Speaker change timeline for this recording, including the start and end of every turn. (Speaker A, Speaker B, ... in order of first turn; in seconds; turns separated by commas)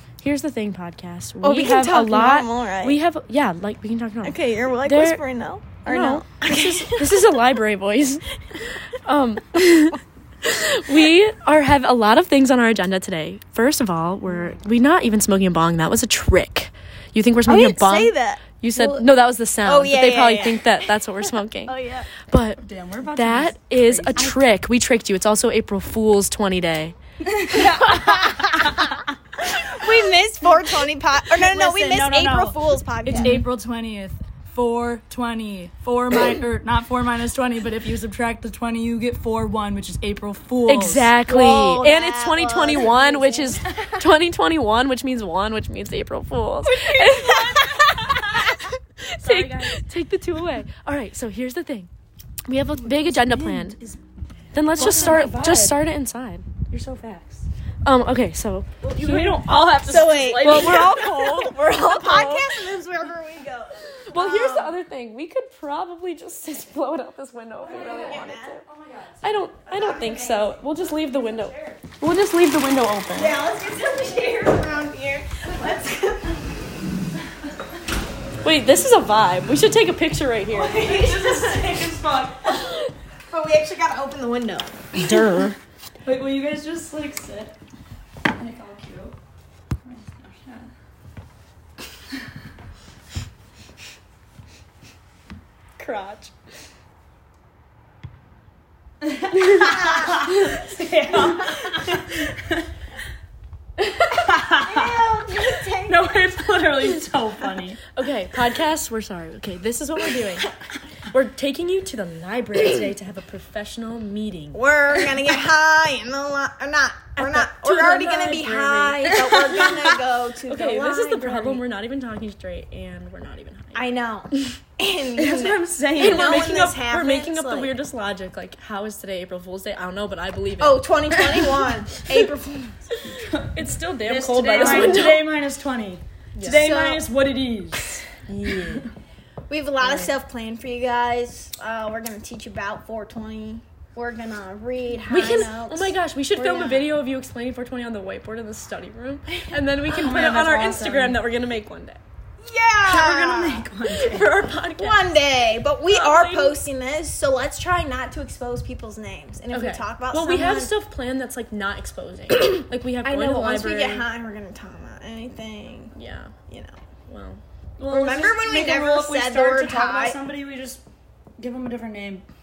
Speaker A: 0.2-5.2, Speaker B: 1.4-3.0, Speaker B: 4.2-7.4, Speaker A: 5.8-22.6, Speaker B: 17.4-19.0, Speaker B: 19.6-20.8, Speaker B: 21.6-22.1, Speaker C: 22.6-24.4, Speaker A: 23.1-26.9, Speaker C: 27.2-29.1, Speaker B: 27.5-33.4, Speaker C: 31.3-41.1, Speaker A: 33.0-33.5, Speaker A: 40.7-51.9, Speaker B: 41.2-43.8, Speaker C: 46.7-48.5, Speaker C: 49.2-49.8, Speaker A: 52.5-53.8, Speaker C: 52.8-54.0, Speaker A: 54.5-56.5, Speaker C: 54.7-55.8, Speaker C: 56.7-57.5, Speaker A: 57.8-62.5, Speaker C: 58.8-61.1, Speaker B: 59.9-64.7, Speaker A: 64.0-68.6, Speaker C: 67.6-71.8, Speaker B: 67.7-68.6, Speaker A: 69.2-73.4, Speaker B: 69.8-70.3, Speaker B: 73.1-76.4, Speaker A: 78.4-80.9, Speaker C: 80.5-82.7, Speaker B: 80.8-81.7, Speaker B: 83.3-84.9, Speaker A: 85.0-85.5, Speaker C: 86.0-87.5, Speaker C: 88.4-89.1, Speaker C: 89.8-90.7, Speaker A: 95.8-96.3, Speaker C: 99.0-102.7, Speaker A: 99.3-100.6, Speaker A: 103.8-104.2, Speaker C: 104.2-104.9, Speaker B: 104.6-106.2, Speaker C: 105.8-107.8, Speaker A: 107.9-110.5, Speaker A: 111.1-114.6, Speaker B: 114.5-121.6, Speaker A: 117.2-119.8, Speaker A: 120.5-123.9, Speaker B: 123.7-127.7, Speaker C: 125.2-126.5, Speaker A: 126.0-131.6, Speaker B: 130.6-132.9, Speaker C: 133.2-133.5, Speaker A: 133.5-135.2, Speaker C: 134.0-138.1, Speaker B: 134.6-135.1, Speaker A: 136.3-136.6, Speaker B: 136.4-137.0, Speaker A: 138.3-138.9, Speaker B: 139.5-146.9, Speaker A: 139.8-140.1, Speaker A: 145.1-152.0, Speaker C: 149.9-151.2, Speaker B: 152.4-153.7, Speaker C: 152.8-154.4, Speaker A: 153.9-155.1, Speaker B: 154.8-160.7, Speaker A: 155.8-156.6, Speaker A: 159.5-164.0, Speaker B: 163.0-165.9, Speaker A: 165.9-166.3, Speaker B: 166.5-166.8, Speaker A: 167.1-167.4, Speaker C: 167.8-170.8, Speaker B: 167.9-170.2, Speaker C: 171.4-172.2